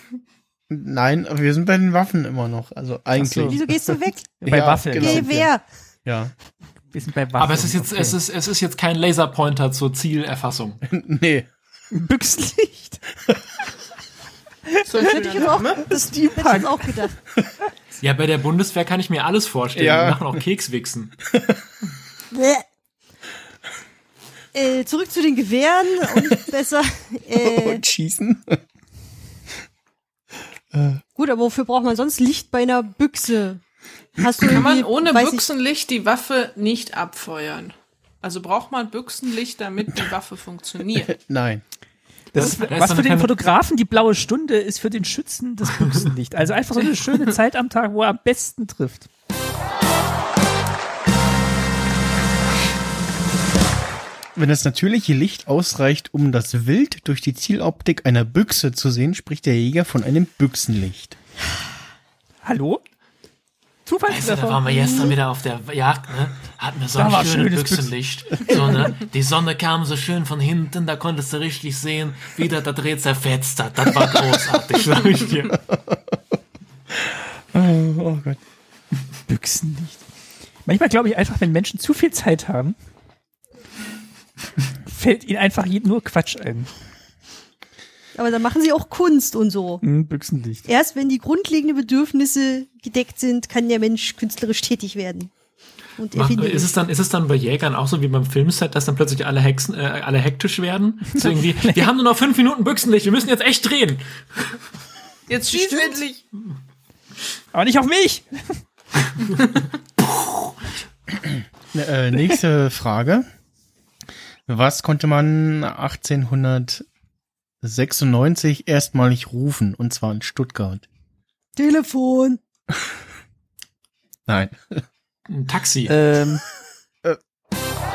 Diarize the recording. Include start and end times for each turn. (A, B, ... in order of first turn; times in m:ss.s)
0:00.7-0:05.3 A
0:03.2-0:03.6 B
0:03.5-0:04.3 C
0:04.4-0:05.5 B
0:05.0-0:05.6 C
0:06.0-0:06.3 A
0:06.9-0:08.2 B
0:07.4-0:10.8 D
0:10.8-0:11.5 A
0:11.9-0:13.0 B
0:14.7-0:15.0 B
0:14.8-0:15.9 E
0:15.1-0:17.1 C
0:15.9-0:16.9 B
0:18.0-0:21.1 D
0:19.7-0:20.4 A
0:21.3-0:21.6 A
0:22.3-0:22.6 C
0:24.5-0:27.8 C
0:26.1-0:26.3 A
0:27.3-0:28.6 A
0:30.7-0:31.0 A
0:31.2-0:33.6 C
0:34.2-0:35.4 C
0:34.4-0:41.1 E
0:41.0-0:41.6 A
0:42.3-0:43.4 D
0:42.3-0:49.1 B
0:54.3-1:01.2 A
1:02.4-1:02.8 B
1:03.8-1:05.2 B
1:04.1-1:15.6 D
1:06.9-1:07.9 B
1:15.5-1:16.2 A
1:16.9-1:18.4 A
1:19.3-1:20.0 B
1:20.6-1:22.8 B
1:24.8-1:26.7 B
1:28.2-1:29.8 C
1:29.8-1:30.6 B
1:30.6-1:35.3 C
1:36.0-1:36.7 C
1:36.1-1:44.6 D
1:41.1-1:41.8 B
1:45.3-1:46.2 E
1:47.5-1:48.6 B
1:51.7-1:53.2 A
1:54.5-1:56.8 A
1:57.6-2:00.8 A
2:01.6-2:02.4 C
2:04.3-2:04.8 A
2:05.3-2:05.9 D
2:05.9-2:06.4 B